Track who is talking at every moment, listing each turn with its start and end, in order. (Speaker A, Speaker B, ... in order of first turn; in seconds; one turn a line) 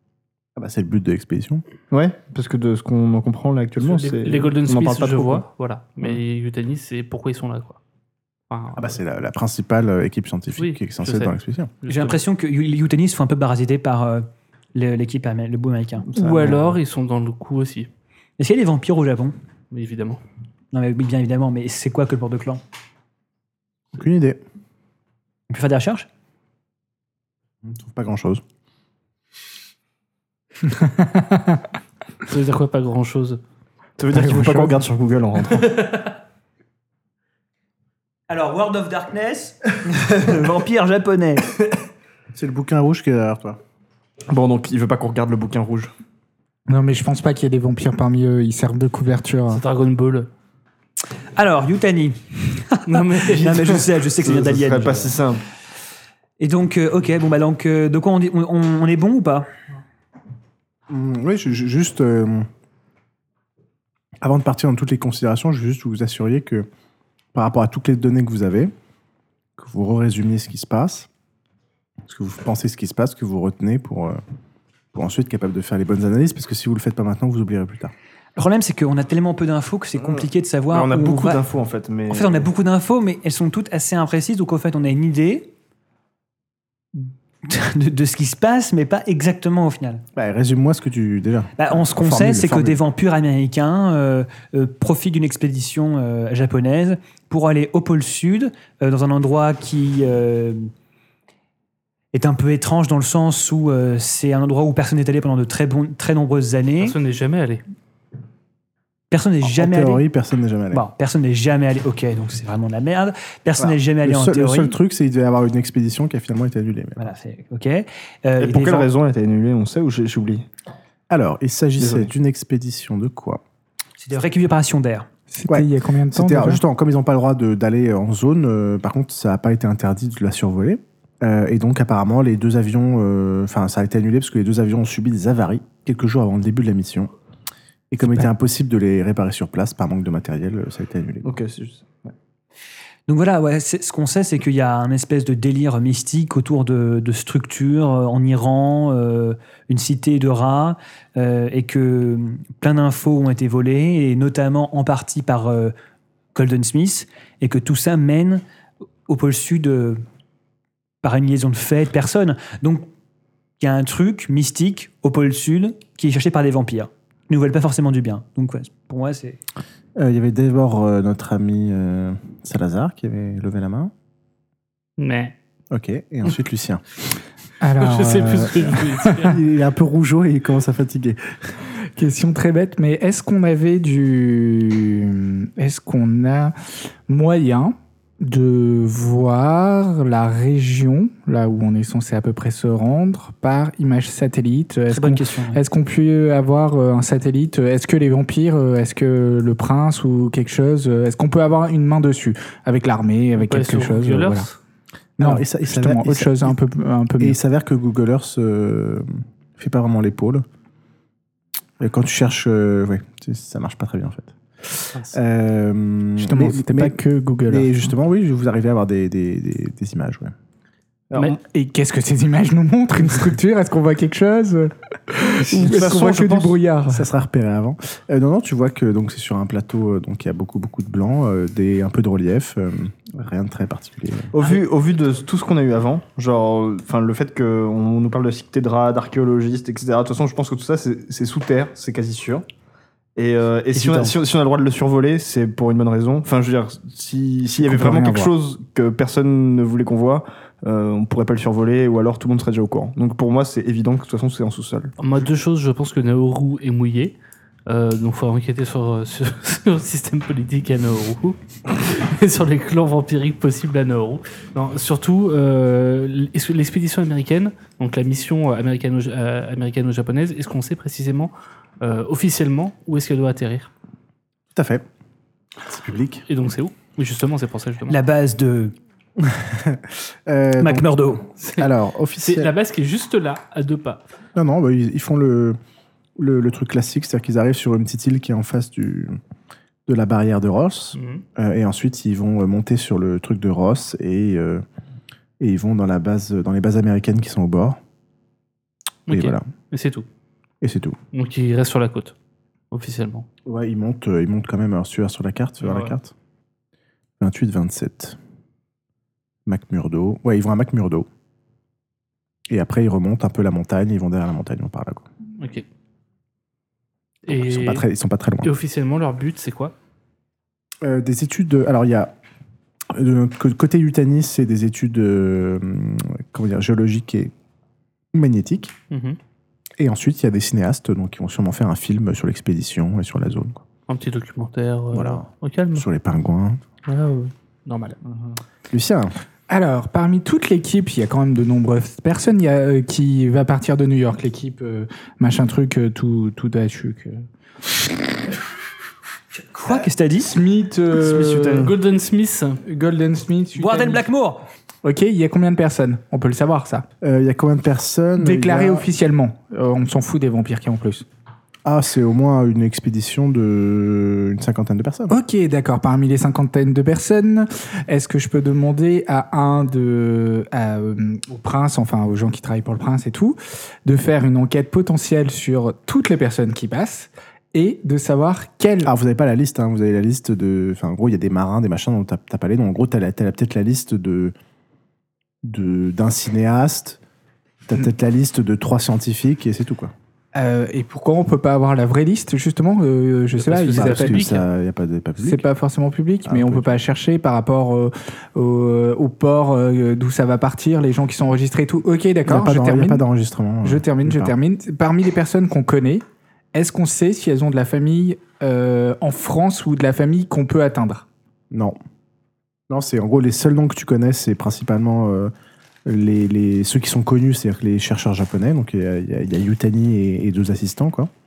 Speaker A: 0.6-1.6
Speaker B: 1.9-5.4
Speaker C: 3.8-7.8
Speaker C: 8.5-9.0
Speaker A: 8.7-11.7
Speaker C: 10.6-12.2
Speaker D: 11.9-16.1
Speaker C: 16.1-17.9
Speaker A: 16.2-16.4
Speaker B: 16.2-16.6
Speaker D: 18.4-19.3
Speaker C: 19.7-20.2
Speaker D: 20.7-22.6
Speaker A: 23.9-24.4
Speaker D: 25.5-26.1
Speaker A: 27.6-28.4
Speaker E: 30.7-31.5
Speaker C: 32.3-33.4
Speaker B: 34.0-35.9
Speaker E: 34.1-34.8
Speaker C: 35.6-36.0
Speaker D: 38.3-41.5
Speaker A: 42.3-43.6
Speaker B: 44.3-45.9
Speaker E: 46.7-49.6
Speaker C: 49.5-50.3
Speaker D: 51.3-55.1
Speaker C: 52.8-53.8
Speaker B: 53.4-55.4
Speaker C: 54.6-55.0
Speaker D: 56.4-59.5
Speaker A: 60.9-62.5
Speaker A: 64.2-66.7
Speaker A: 67.3-68.7
Speaker A: 69.6-71.1
Speaker A: 72.1-74.2
Speaker A: 74.9-77.9
Speaker D: 78.3-81.4
Speaker B: 80.0-82.5
Speaker D: 82.1-85.5
Speaker D: 87.0-90.0
Speaker A: 90.2-92.8
Speaker D: 91.6-100.7
Speaker D: 102.1-107.0
Speaker C: 106.8-107.6
Speaker D: 109.1-110.0
Speaker A: 109.4-110.8
Speaker D: 110.7-114.8
Speaker A: 113.6-117.1
Speaker D: 117.0-118.9
Speaker B: 118.4-120.5
Speaker A: 121.1-123.4
Speaker B: 121.8-122.1
Speaker D: 124.0-125.1
Speaker E: 125.3-126.6
Speaker A: 125.5-137.1
Speaker A: 137.9-141.3
Speaker B: 141.2-142.1
Speaker D: 143.1-155.7
Speaker D: 156.3-158.4
Speaker D: 159.1-160.0
Speaker D: 161.0-162.9
Speaker D: 163.6-169.4
Speaker A: 170.0-173.9
Speaker C: 175.0-175.3
Speaker A: 175.7-176.8
Speaker E: 177.6-179.4
Speaker C: 177.8-179.4
Speaker A: 179.1-181.5
Speaker E: 181.9-186.5
Speaker E: 187.1-204.5
Speaker D: 194.9-195.6
Speaker C: 203.4-204.6
Speaker E: 205.2-207.4
Speaker A: 205.2-206.6
Speaker A: 207.2-210.4
Speaker A: 211.8-220.3
Speaker E: 216.2-217.9
Speaker E: 221.2-227.1
Speaker B: 225.4-226.6
Speaker A: 226.9-234.3
Speaker B: 234.3-242.4
Speaker D: 234.4-234.6
Speaker B: 243.2-254.9
Speaker D: 243.7-244.2
Speaker E: 247.5-248.3
Speaker C: 255.0-257.1
Speaker C: 257.7-273.7
Speaker A: 274.5-274.9
Speaker A: 275.6-276.2
Speaker C: 276.3-278.0
Speaker D: 277.9-278.7
Speaker A: 279.2-282.5
Speaker D: 280.6-281.2
Speaker C: 281.4-284.0
Speaker A: 284.4-285.6
Speaker A: 286.2-289.2
Speaker A: 289.9-294.6
Speaker C: 290.9-291.2
Speaker A: 295.4-297.8
Speaker C: 299.1-300.1
Speaker A: 299.1-299.4
Speaker A: 300.6-301.0
Speaker C: 301.1-302.1
Speaker C: 302.7-303.2
Speaker A: 303.4-306.1
Speaker C: 305.6-305.9
Speaker A: 307.2-308.2
Speaker A: 309.4-311.1
Speaker A: 312.5-315.0
Speaker C: 315.4-315.6
Speaker C: 317.2-317.8
Speaker A: 317.3-318.5
Speaker C: 318.4-319.7
Speaker A: 320.8-322.1
Speaker A: 322.9-327.3
Speaker A: 328.1-328.7
Speaker C: 328.9-329.2
Speaker A: 329.8-333.6
Speaker C: 333.9-335.8
Speaker A: 334.9-336.6
Speaker C: 336.9-338.0
Speaker B: 338.0-338.4
Speaker A: 338.7-339.1
Speaker E: 339.5-347.2
Speaker D: 349.4-350.3
Speaker E: 350.2-351.7
Speaker B: 350.9-351.7
Speaker C: 351.5-352.6
Speaker E: 352.6-354.0
Speaker D: 353.5-354.4
Speaker E: 354.8-356.9
Speaker A: 357.0-358.9
Speaker E: 358.2-361.0
Speaker A: 361.6-365.1
Speaker E: 365.1-378.9
Speaker A: 378.8-384.3
Speaker A: 385.4-387.0
Speaker A: 387.7-389.9
Speaker E: 390.3-394.3
Speaker C: 393.4-394.4
Speaker A: 393.7-395.4
Speaker E: 395.2-403.1
Speaker A: 396.2-396.7
Speaker A: 402.2-404.3
Speaker E: 403.6-411.1
Speaker A: 411.5-411.8
Speaker A: 412.7-415.3
Speaker A: 415.9-421.1